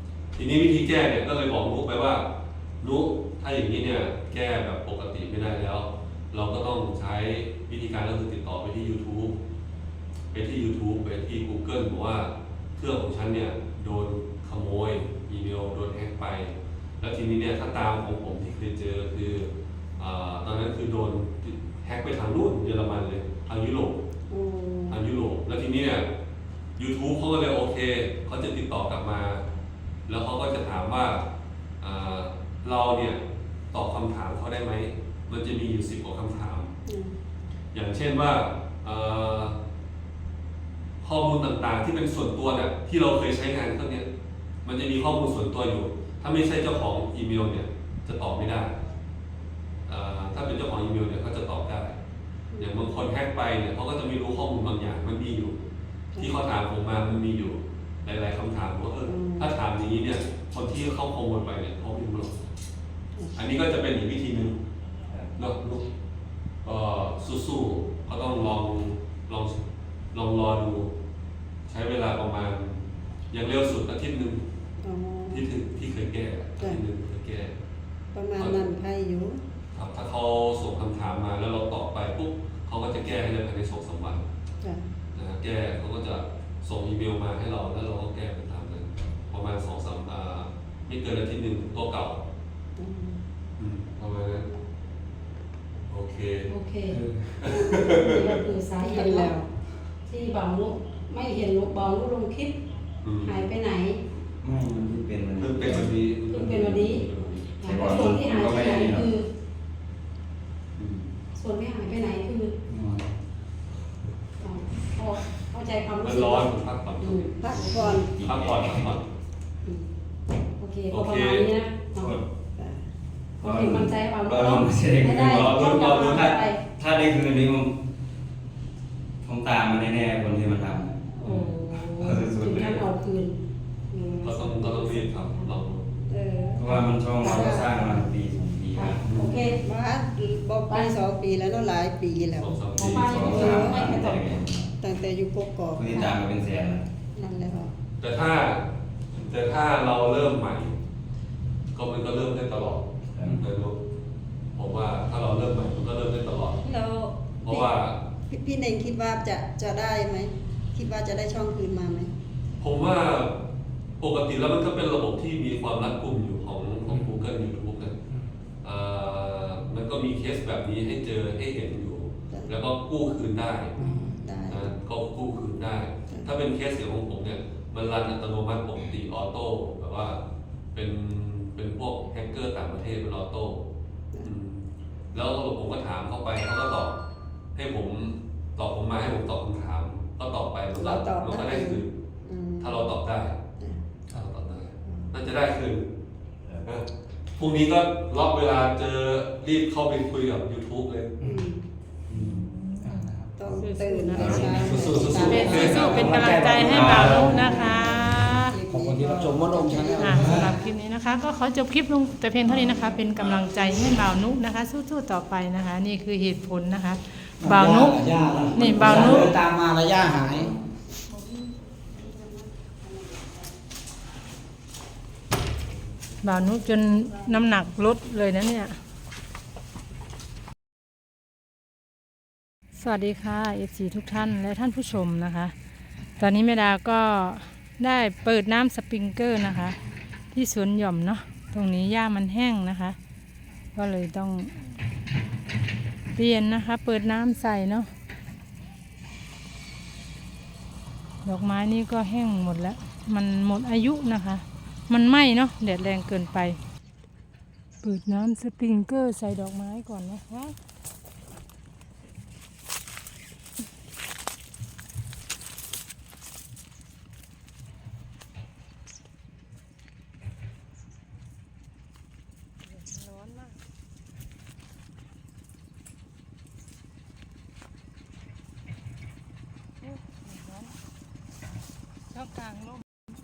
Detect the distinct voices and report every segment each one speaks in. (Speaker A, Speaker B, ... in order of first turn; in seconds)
Speaker A: 0.3-2.3, 2.8-9.4, 10.3-24.0, 24.9-26.1, 26.8-29.4, 30.1-31.2, 31.8-33.2, 33.7-36.7, 37.7-39.5, 41.0-44.1, 44.6-48.8, 49.9-52.0, 52.6-55.6, 56.2-62.4, 63.4-64.6, 65.4-65.9, 66.6-69.6, 70.1-70.9, 71.7-72.8, 73.3-74.4, 75.3-77.5, 78.4-78.7, 79.7-84.2, 85.2-92.2, 93.6-94.5, 95.9-96.5, 97.4-98.3, 103.0-103.5, 105.4-107.5, 110.8-111.1, 116.0-119.1, 120.9-121.5, 125.0-126.3, 134.2-135.9, 139.1-139.4, 142.3-143.5, 148.0-150.8, 151.7-153.8, 154.6-156.6, 157.4-158.0, 162.6-163.3, 164.0-168.0, 168.6-173.8, 174.5-180.2, 180.7-183.6, 184.2-187.0, 187.6-191.9, 192.6-193.4, 194.1-195.9, 196.7-201.2, 204.3-206.2
Speaker B: 24.3-25.0, 36.9-37.1, 52.5-52.9, 59.1-59.5, 74.8-75.5, 78.1-79.4, 84.6-84.9, 92.8-93.2, 98.8-99.5, 117.4-118.1, 122.6-122.8, 134.1-134.9, 136.1-137.7, 139.6-142.6, 143.3-143.9, 144.8-146.1, 147.1-147.7, 156.6-157.7, 158.3-162.1, 173.8-174.7, 190.8-192.9, 201.2-201.6, 203.4-210.4, 221.9-222.3, 222.9-223.3
Speaker C: 65.1-65.3, 104.4-105.8, 107.6-109.1, 112.7-113.1, 117.7-118.9, 122.0-122.2, 123.4-127.8, 129.2-132.8, 136.6-139.1, 142.8-144.7, 145.8-146.8, 153.1-153.5, 202.1-202.4
Speaker D: 96.5-97.0, 97.5-99.3, 100.1-102.6, 103.2-104.0, 105.6-107.0, 107.6-109.3, 111.3-112.5, 114.4-117.3, 120.6-122.2, 123.4-126.6, 131.2-133.4, 134.7-135.5, 138.8-139.6, 142.7-144.3
Speaker E: 153.2-153.5, 166.9-167.2, 202.1-203.6, 204.1-210.6, 217.4-220.5
Speaker F: 202.5-203.0, 203.6-208.6, 209.8-219.3, 226.2-228.8, 232.8-235.6, 236.2-239.8, 240.3-243.0, 243.7-244.6, 246.1-247.9, 251.2-256.6, 257.8-260.6, 272.7-273.6, 279.8-280.7, 282.1-282.8